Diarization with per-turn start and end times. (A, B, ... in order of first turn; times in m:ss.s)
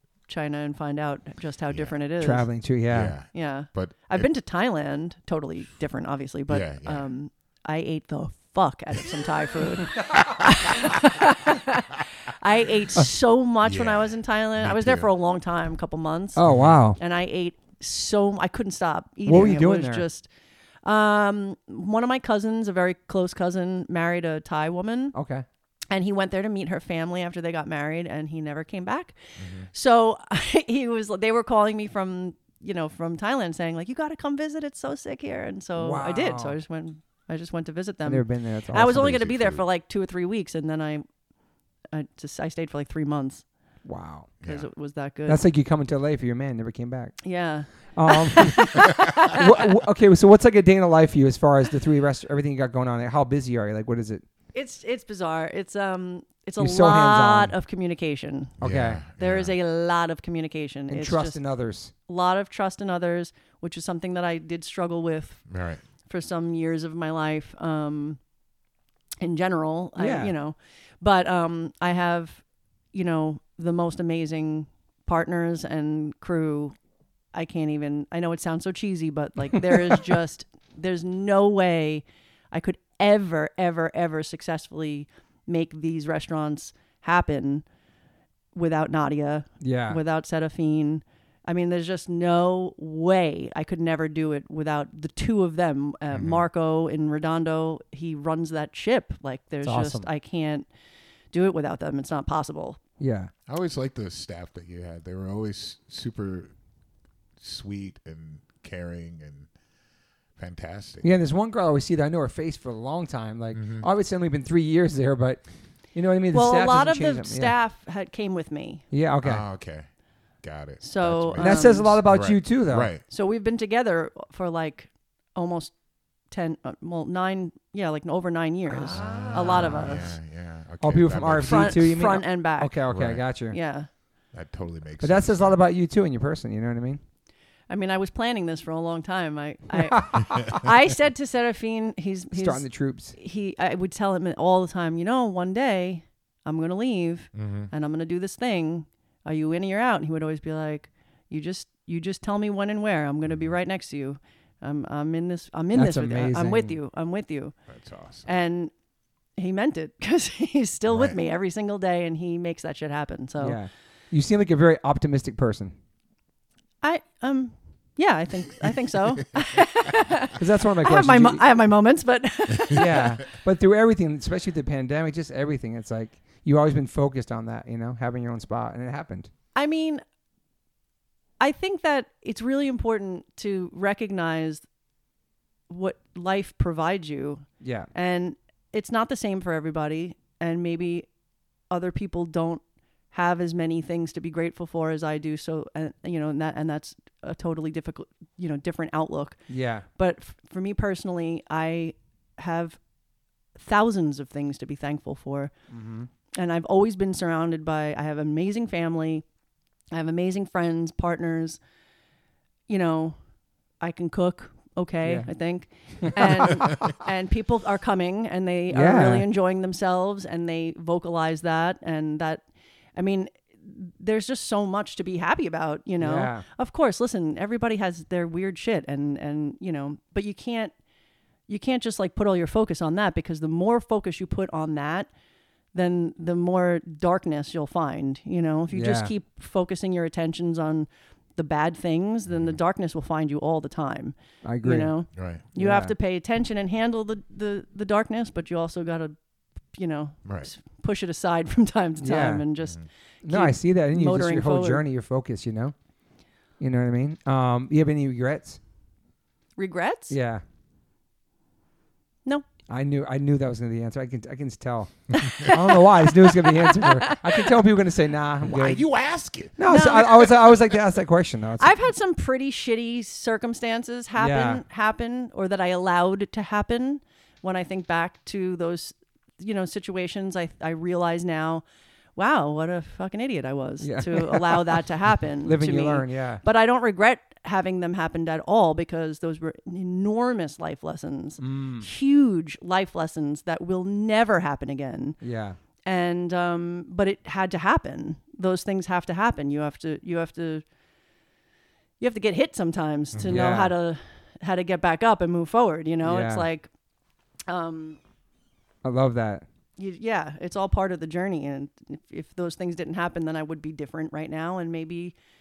0:00.3-0:02.5 A
0:01.7-0:02.0 B
0:02.2-0:03.2 C
0:02.9-0:04.3 B
0:03.3-0:16.4 A
0:06.5-0:07.1 B
0:10.1-0:10.4 B
0:13.6-0:15.1 B
0:16.4-0:17.0 C
0:16.4-0:16.8 B
0:17.0-0:20.3 A
0:19.3-0:20.0 C
0:20.8-0:25.2 A
0:25.1-0:25.4 C
0:25.9-0:29.2 A
0:29.4-0:29.7 B
0:29.7-0:41.0 A
0:35.8-0:36.6 C
0:38.0-0:39.1 C
0:38.8-0:39.6 B
0:41.9-0:43.4 A
0:43.8-0:44.3 C
0:44.4-0:44.7 B
0:44.4-0:45.4 A
0:45.3-0:47.2 C
0:47.2-0:49.7 A
0:48.0-0:54.2 C
0:54.5-0:58.6 A
0:56.6-0:57.5 C
0:58.6-0:59.0 C
0:58.6-0:59.6 B
0:59.2-1:01.4 A
1:00.9-1:01.9 C
1:02.1-1:05.4 A
1:05.5-1:05.8 B
1:06.1-1:08.2 A
1:09.2-1:12.4 A
1:10.0-1:10.3 C
1:12.9-1:16.8 A
1:17.3-1:27.6 A
1:19.7-1:20.0 C
1:28.6-1:40.7 A
1:29.6-1:30.0 C
1:36.1-1:36.4 B
1:39.6-1:40.1 C
1:41.3-1:42.8 A
1:43.0-1:43.3 C
1:43.5-1:46.5 B
1:47.4-1:49.5 B
1:50.4-1:51.1 B
1:51.0-1:55.4 C
1:53.5-1:53.9 B
1:56.0-1:57.5 C
1:56.3-1:58.8 A
1:58.9-1:59.4 C
1:59.2-1:59.9 B
2:00.4-2:03.0 B
2:00.8-2:02.0 A
2:01.4-2:02.9 C
2:03.1-2:05.7 A
2:06.3-2:10.1 A
2:08.7-2:10.0 C
2:08.9-2:12.0 B
2:10.8-2:13.6 C
2:11.4-2:12.8 A
2:12.9-2:13.2 B
2:13.5-2:13.9 A
2:14.3-2:15.6 B
2:15.0-2:17.0 C
2:17.7-2:37.6 A
2:19.8-2:20.6 C
2:20.2-2:20.6 B
2:22.3-2:23.2 C
2:27.4-2:27.7 B
2:33.3-2:33.6 B
2:35.7-2:36.8 C
2:37.7-2:38.4 B
2:38.3-2:38.7 A
2:39.4-2:43.6 A
2:40.9-2:41.2 B
2:43.4-2:45.7 C
2:46.8-2:53.2 A
2:50.4-2:51.4 C
2:52.6-2:53.0 B
2:52.7-2:59.3 C
2:59.6-3:00.0 A
3:01.4-3:04.6 A
3:05.7-3:11.1 A
3:07.6-3:07.9 C
3:11.7-3:12.6 A
3:13.1-3:19.4 A
3:19.5-3:19.8 C
3:20.0-3:22.8 A
3:23.6-3:25.5 A
3:25.7-3:26.1 C
3:26.4-3:29.2 A
3:29.9-3:31.6 A
3:32.7-3:33.2 A
3:33.8-3:42.4 A
3:36.0-3:36.6 C
3:36.6-3:36.9 B
3:38.7-3:39.3 C
3:43.0-3:50.7 A
3:46.0-3:46.4 C
3:51.5-3:55.1 A
3:55.7-4:09.2 A
3:58.7-3:59.1 C
4:02.3-4:02.6 B
4:04.4-4:04.9 C
4:05.2-4:05.5 B
4:05.6-4:05.9 C
4:09.7-4:14.8 A
4:12.0-4:12.4 C
4:12.6-4:12.9 B
4:13.2-4:15.7 C
4:16.6-4:18.6 C
4:19.6-4:20.2 A
4:20.1-4:20.4 C
4:22.7-4:28.8 C
4:25.4-4:27.6 A
4:28.4-4:29.6 B
4:29.6-4:31.8 C
4:29.7-4:30.6 A
4:31.6-4:41.6 A
4:34.2-4:34.6 C
4:42.2-4:55.2 A
4:43.8-4:44.8 C
4:45.4-4:46.4 C
4:51.4-4:51.9 C
4:55.2-4:55.6 C
4:55.9-5:00.6 A
5:02.0-5:06.7 A
5:03.1-5:03.4 B
5:03.3-5:03.7 C
5:06.0-5:06.5 C
5:07.5-5:08.0 A
5:08.8-5:09.5 C
5:09.8-5:15.2 A